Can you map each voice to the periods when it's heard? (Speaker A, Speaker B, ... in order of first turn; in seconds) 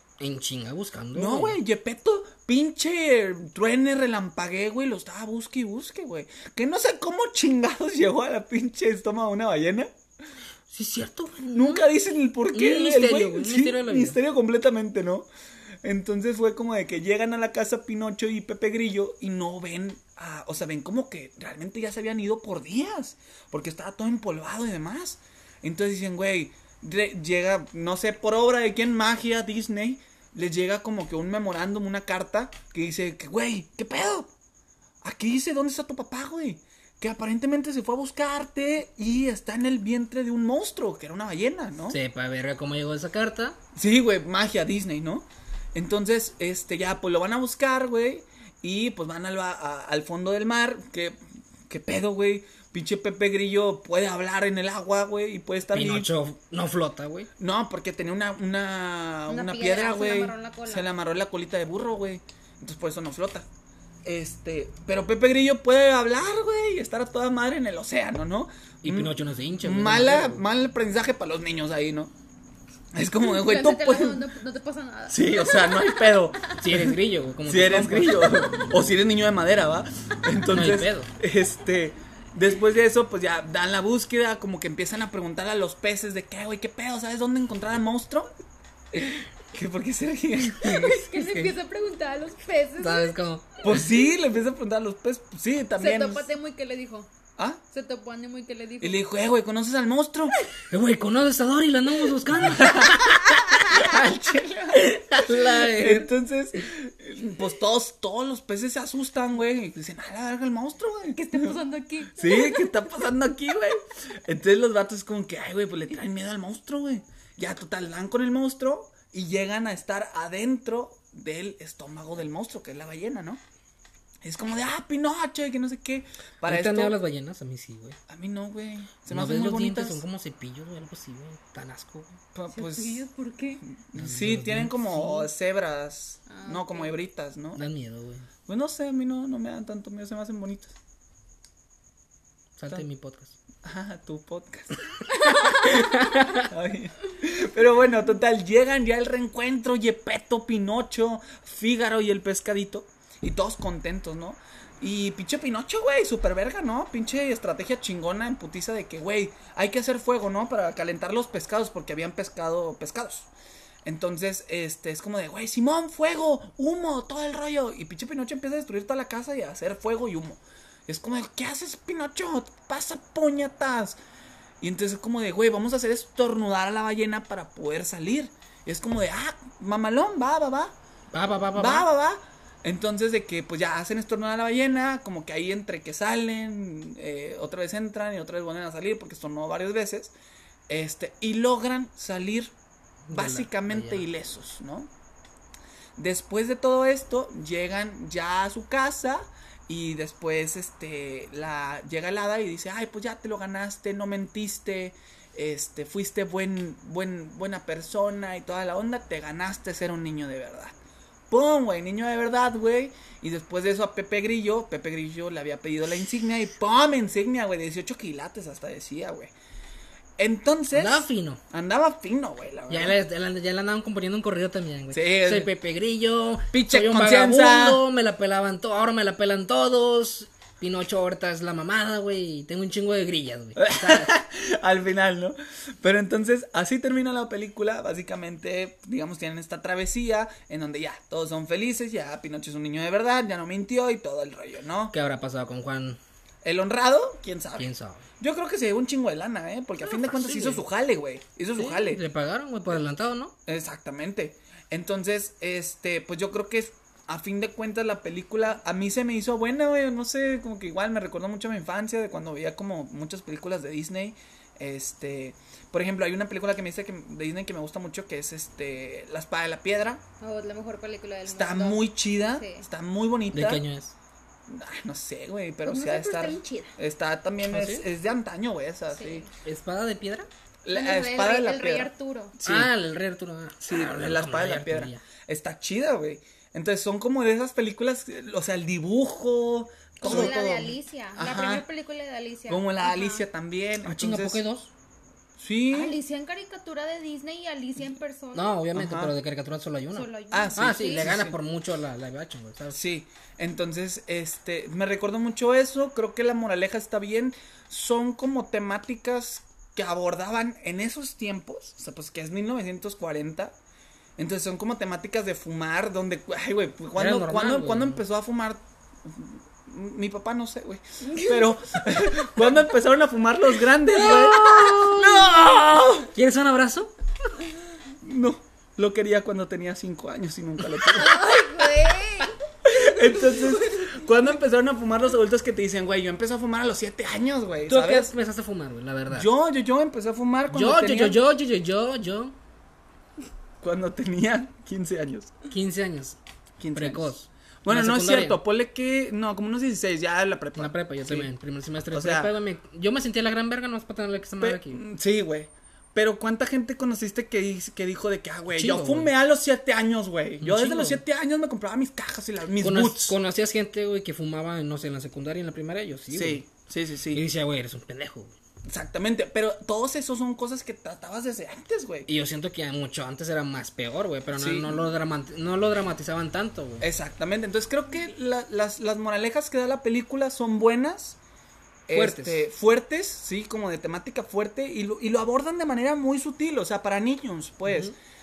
Speaker A: 0.2-1.6, 10.7-11.9, 12.5-14.2, 41.9-43.6, 55.7-57.3, 68.8-70.4, 76.6-78.4, 80.5-81.1, 91.2-91.5, 92.8-93.8, 100.7-103.8, 104.7-106.1, 126.5-128.0, 129.1-132.2, 134.0-135.3, 137.6-138.3, 142.6-143.3, 145.6-146.5, 181.1-181.9, 193.1-194.1, 220.7-221.4, 222.7-234.1, 244.9-246.0, 247.6-248.1, 249.8-250.6, 251.6-253.3, 273.3-273.9, 277.5-277.9, 279.4-280.3, 282.4-285.0, 290.0-290.3, 293.8-294.7, 298.4-302.8, 317.0-318.0, 323.9-325.4, 326.1-326.9, 337.7-339.3, 340.5-342.4, 345.5-346.2, 346.7-348.4, 350.6-354.8, 358.5-359.1, 360.4-361.0, 362.6-366.4, 367.1-368.3, 372.1-376.9, 381.9-382.4, 387.7-387.9
Speaker B: 1.1-9.9, 11.5-15.3, 15.8-34.3, 35.0-42.0, 43.8-56.1, 57.4-63.5, 64.0-72.1, 72.9-74.2, 75.1-77.0, 77.5-88.3, 88.9-91.1, 93.6-96.3, 98.8-100.3, 102.5-111.6, 112.1-123.4, 124.2-127.0, 128.1-130.0, 132.3-133.1, 133.7-137.6, 138.5-140.8, 143.6-163.3, 163.8-174.0, 174.6-180.8, 181.6-190.1, 190.7-192.5, 193.1-194.9, 196.0-210.7, 211.3-219.3, 220.2-223.0, 224.9-225.5, 226.5-227.8, 233.6-244.9, 246.4-252.0, 253.5-270.0, 271.3-273.6, 274.5-279.3, 280.6-282.7, 283.6-291.6, 292.5-294.4, 295.4-295.9, 298.7-299.1, 300.3-301.4, 302.7-313.6, 314.2-326.1, 328.0-331.4, 332.6-338.1, 339.1-341.2, 343.6-345.4, 346.6-347.1, 347.6-351.3, 351.9-352.3, 354.4-363.2, 366.1-367.2, 368.7-372.1, 374.4-374.8, 376.8-381.2, 381.9-387.9
Speaker C: 59.3-60.9, 73.2-76.4, 90.6-93.2, 95.8-97.1, 97.7-99.0, 111.2-112.8, 132.5-133.6, 136.3-136.9, 270.2-272.7, 275.6-276.8, 278.9-279.3, 280.7-282.4, 290.0-293.3, 295.7-298.6, 299.9-301.1, 330.8-332.3